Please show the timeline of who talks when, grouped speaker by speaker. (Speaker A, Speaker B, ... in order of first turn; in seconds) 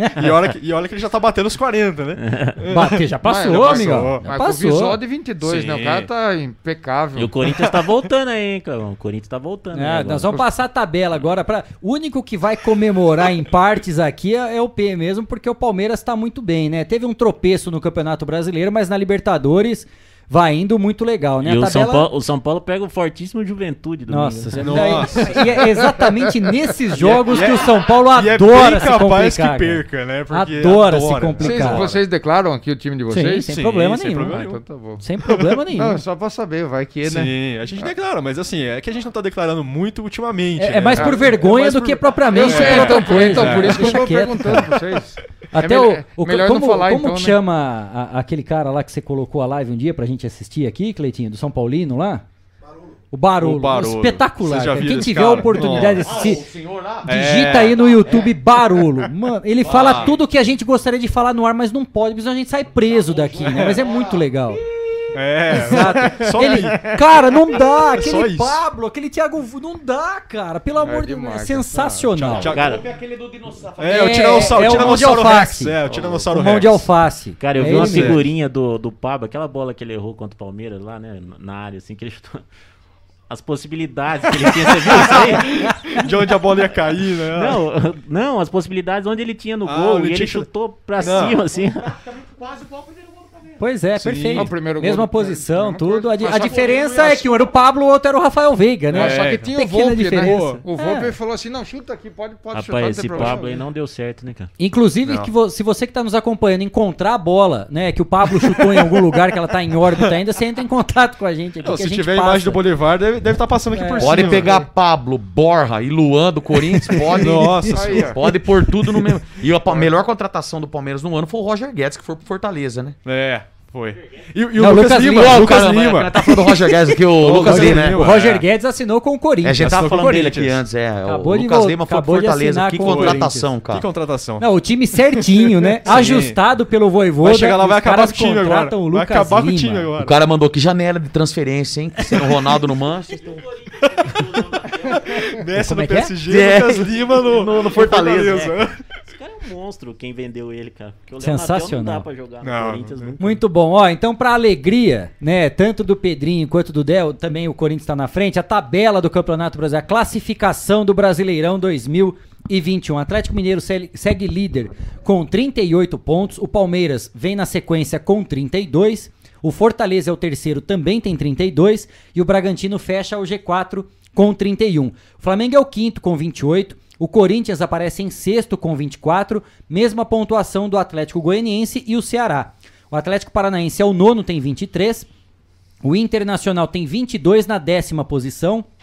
Speaker A: 0.1-4.3, 5.5-6.0, 7.5-7.9, 24.6-25.6, 26.9-32.0, 33.4-34.6, 37.0-44.7, 53.4-56.3, 57.1-57.8, 59.6-60.1, 63.4-63.7, 65.1-68.6, 72.1-72.7, 73.8-76.9, 77.5-78.3, 84.4-87.6, 89.6-91.4, 94.0-94.6, 98.9-99.5, 100.2-100.6, 105.0-105.3, 108.4-109.0, 111.6-114.6, 116.9-118.2, 118.8-119.9, 123.0-128.4, 129.6-130.6, 132.8-134.4, 135.1-136.4, 137.2-140.1, 142.0-142.3, 143.8-148.8, 152.4-153.2
Speaker B: 2.2-2.6, 5.4-5.9, 7.2-10.4, 21.4-24.9, 72.5-72.8, 77.4-82.5, 83.3-85.5, 87.3-91.9, 102.5-104.5, 123.9-124.2, 143.0-145.3, 149.1-153.4
Speaker C: 2.7-5.0, 9.7-22.1, 24.1-31.9, 33.1-34.4, 35.0-36.0, 40.6-44.7, 45.5-52.2, 53.1-56.4, 57.0-64.6, 65.5-72.5, 73.9-78.2, 93.6-101.1, 104.6-112.6, 113.7-114.5, 117.2-117.6, 124.6-125.5, 127.3-130.4, 131.0-133.5, 134.4-139.9, 145.5-146.2, 151.2-152.1, 153.2-185.1, 185.8-188.7
Speaker D: 3.2-7.3, 31.4-33.5, 34.3-35.0, 35.7-37.9, 41.0-41.5, 42.2-47.4, 70.8-72.1, 94.3-97.3, 98.9-103.6, 117.7-118.2
Speaker E: 55.7-57.1, 57.7-58.4, 59.6-60.2, 62.7-64.6, 72.4-75.0, 91.0-91.3, 91.8-93.6, 96.3-97.1, 114.0-123.0, 125.1-128.1, 129.4-133.9, 140.0-143.4, 146.3-148.6